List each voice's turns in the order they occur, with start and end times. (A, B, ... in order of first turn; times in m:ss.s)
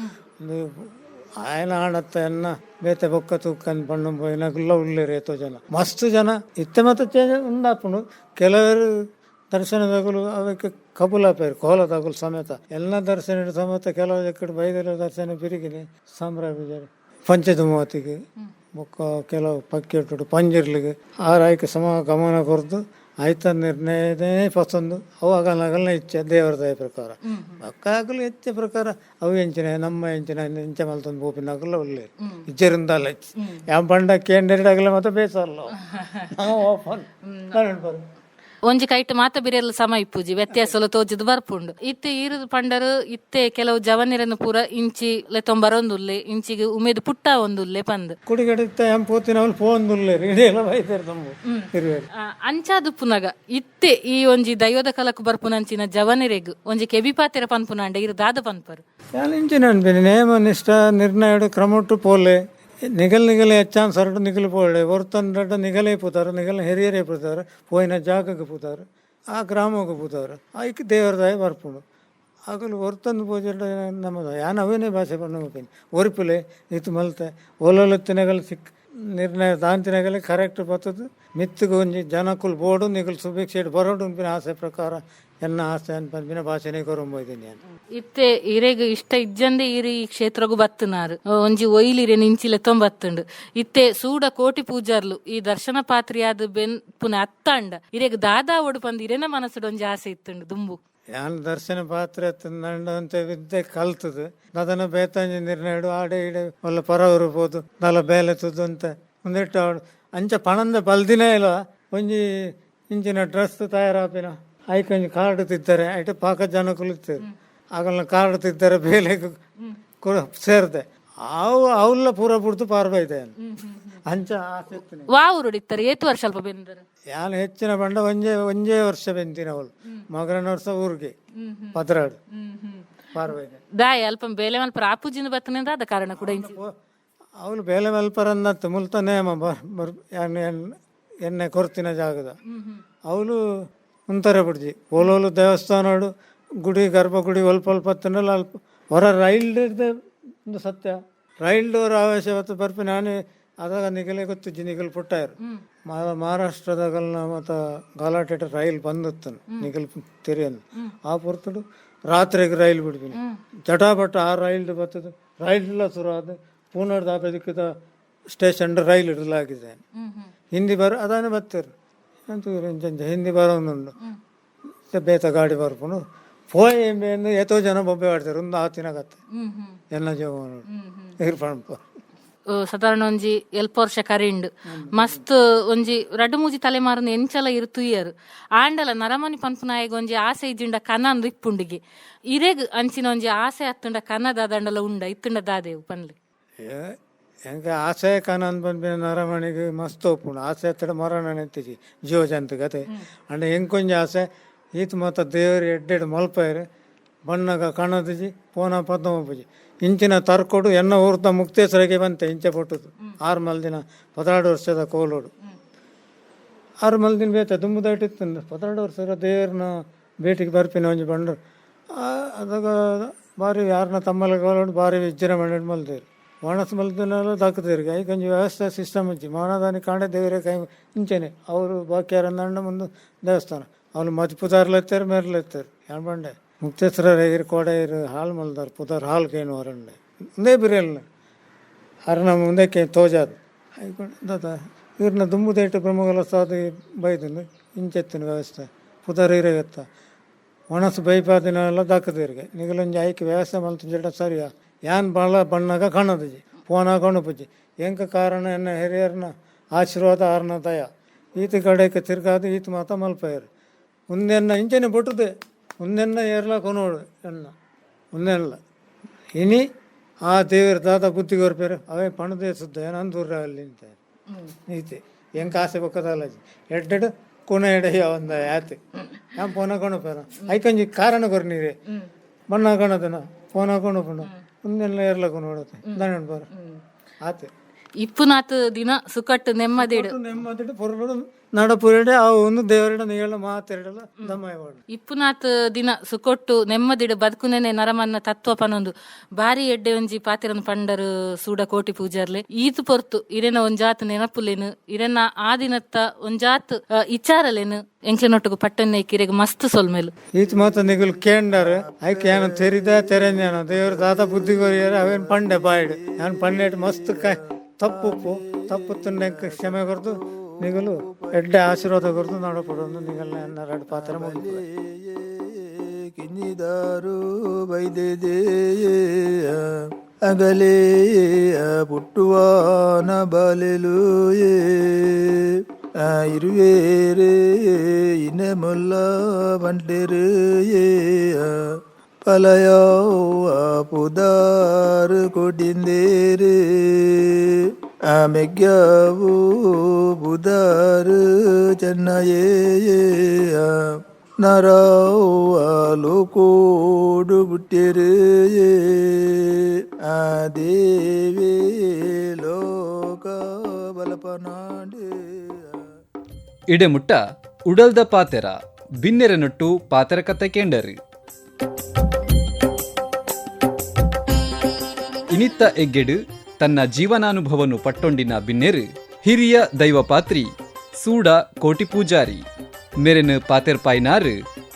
0:00.4-0:38.0 A
0:27.3-0:27.6 B
0:33.4-0:33.6 B
0:35.8-0:36.3 B
0:37.2-0:37.6 B
0:38.6-0:48.2 B
0:48.3-0:52.1 A
0:51.5-0:58.8 B
0:59.1-1:11.8 A
1:12.5-1:27.6 A
1:27.9-1:40.8 B
1:41.1-1:59.4 A
2:00.0-2:03.4 A
2:03.4-2:04.0 B
2:04.0-2:05.1 A
2:05.1-2:06.8 B
2:07.1-2:11.2 A
2:11.4-2:11.8 B
2:11.7-2:12.2 A
2:12.3-2:12.9 B
2:13.1-2:13.6 A
2:13.8-2:16.6 B
2:16.2-2:16.7 A
2:17.4-2:22.4 A
2:22.5-2:22.8 B
2:23.1-2:23.4 A
2:24.1-2:47.7 A
2:48.3-2:49.8 A
2:50.0-2:50.3 B
2:50.5-2:51.7 A
2:52.3-2:54.0 A
2:54.9-2:59.2 A
2:59.3-2:59.8 B
2:59.9-3:00.7 A
3:00.7-3:01.1 B
3:01.2-3:01.9 A
3:02.5-3:16.2 B
3:04.7-3:05.2 A
3:16.6-3:26.6 A
3:27.3-3:35.3 A
3:36.8-3:41.4 A
3:41.9-4:01.0 A
4:02.1-4:09.8 A
4:10.7-4:23.5 A
4:24.1-4:27.5 A
4:28.1-4:28.6 A
4:29.4-4:29.6 A
4:30.2-4:34.0 A
4:34.5-4:38.8 A
4:39.4-4:41.8 A
4:42.5-4:46.5 A
4:45.9-4:46.8 B
4:47.2-4:47.5 A
4:48.0-4:50.2 B
4:49.8-4:54.8 A
4:54.9-5:10.1 B
5:10.3-5:24.6 A
5:10.5-6:05.9 C
6:06.7-6:11.0 D
6:15.3-6:22.4 D
6:23.0-6:24.4 D